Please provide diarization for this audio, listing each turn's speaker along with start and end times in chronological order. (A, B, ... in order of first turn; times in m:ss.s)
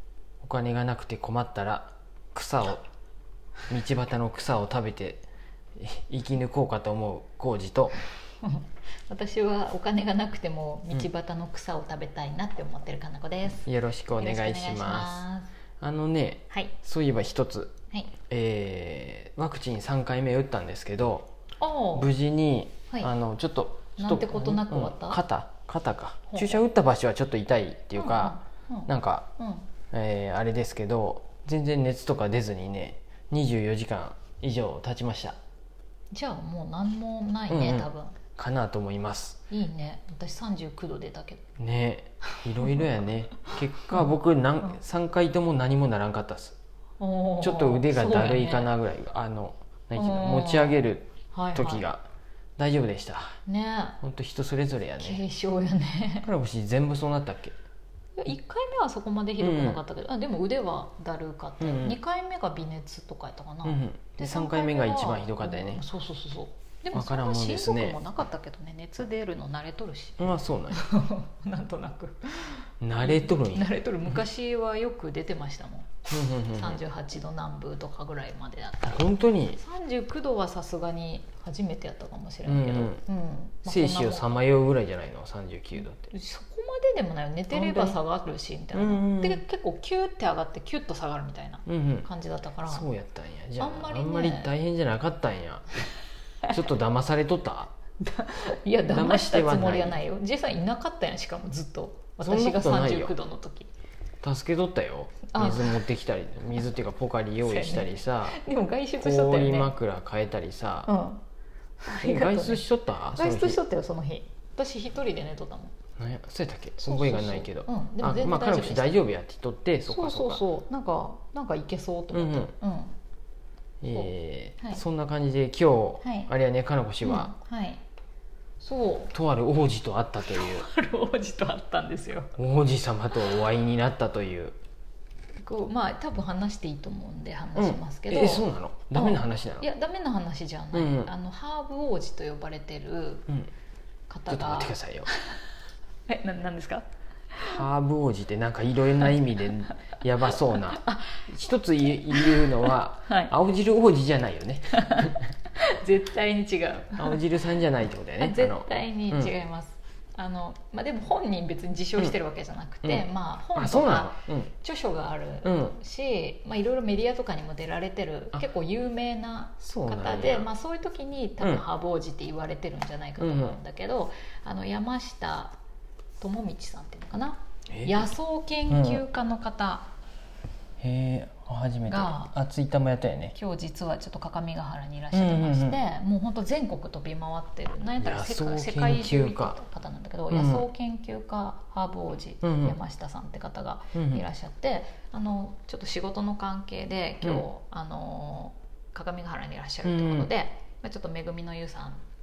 0:00.4-0:02.8 A
0:03.7-0:05.2 A
0:05.8-0:08.0 A
0:08.4-0:13.7 B
0:13.6-0:15.2 A
0:14.2-0:15.5 B
0:15.8-0:21.3 A
0:21.6-0:22.1 B
0:21.9-0:29.3 A
0:24.0-0:25.2 B
0:26.3-0:26.6 B
0:27.9-0:29.7 B
0:29.9-0:35.4 A
0:36.1-0:38.2 B
0:37.5-0:39.4 A
0:39.5-0:41.4 B
0:41.6-0:46.6 A
0:47.0-0:48.7 B
0:47.4-0:52.0 A
0:50.0-0:51.9 B
0:52.6-0:53.4 A
0:53.4-0:54.0 B
0:54.0-0:55.2 A
0:55.0-0:56.3 B
0:56.2-0:57.6 A
0:58.2-1:16.0 B
0:59.4-0:59.8 A
1:01.6-1:02.0 A
1:03.6-1:05.8 A
1:06.9-1:08.0 A
1:10.2-1:10.9 A
1:12.8-1:13.7 A
1:16.1-1:16.8 A
1:16.5-1:24.4 B
1:18.9-1:19.6 A
1:22.4-1:23.0 A
1:23.6-1:26.1 A
1:26.1-1:32.9 B
1:27.5-1:28.0 A
1:28.7-1:29.4 A
1:31.6-1:32.1 A
1:32.7-1:35.6 A
1:33.6-1:34.5 B
1:36.5-1:37.7 A
1:38.0-1:43.7 B
1:38.9-1:40.0 A
1:42.2-1:43.1 A
1:44.2-1:48.4 A
1:45.3-1:45.8 B
1:47.4-1:49.7 B
1:49.0-1:50.9 A
1:50.8-1:51.2 B
1:51.8-1:55.8 B
1:51.9-1:53.6 A
1:56.0-2:00.4 A
1:56.8-1:59.0 B
1:59.9-2:03.0 B
2:02.1-2:02.5 A
2:03.8-2:07.3 A
2:06.0-2:06.3 B
2:07.0-2:07.8 B
2:08.6-2:09.1 B
2:09.1-2:10.7 A
2:10.2-2:12.3 B
2:12.4-2:14.6 A
2:15.4-2:23.3 B
2:17.6-2:19.6 A
2:20.7-2:21.1 A
2:24.1-2:25.4 B
2:24.3-2:25.1 A
2:26.1-2:27.6 B
2:27.4-2:35.2 A
2:30.5-2:31.3 B
2:32.1-2:33.3 B
2:34.7-2:37.2 B
2:37.0-2:39.3 A
2:38.2-2:55.6 B
2:42.8-2:44.5 A
2:45.4-2:45.7 A
2:49.6-2:50.5 A
2:53.2-2:53.6 A
2:56.2-2:59.9 B
2:57.7-2:58.1 A
2:58.7-2:59.0 A
3:00.8-3:03.4 A
3:01.9-3:02.3 B
3:03.3-3:22.0 B
3:05.1-3:05.8 A
3:08.0-3:09.6 A
3:10.3-3:10.7 A
3:12.4-3:12.8 A
3:13.9-3:14.2 A
3:19.8-3:20.3 A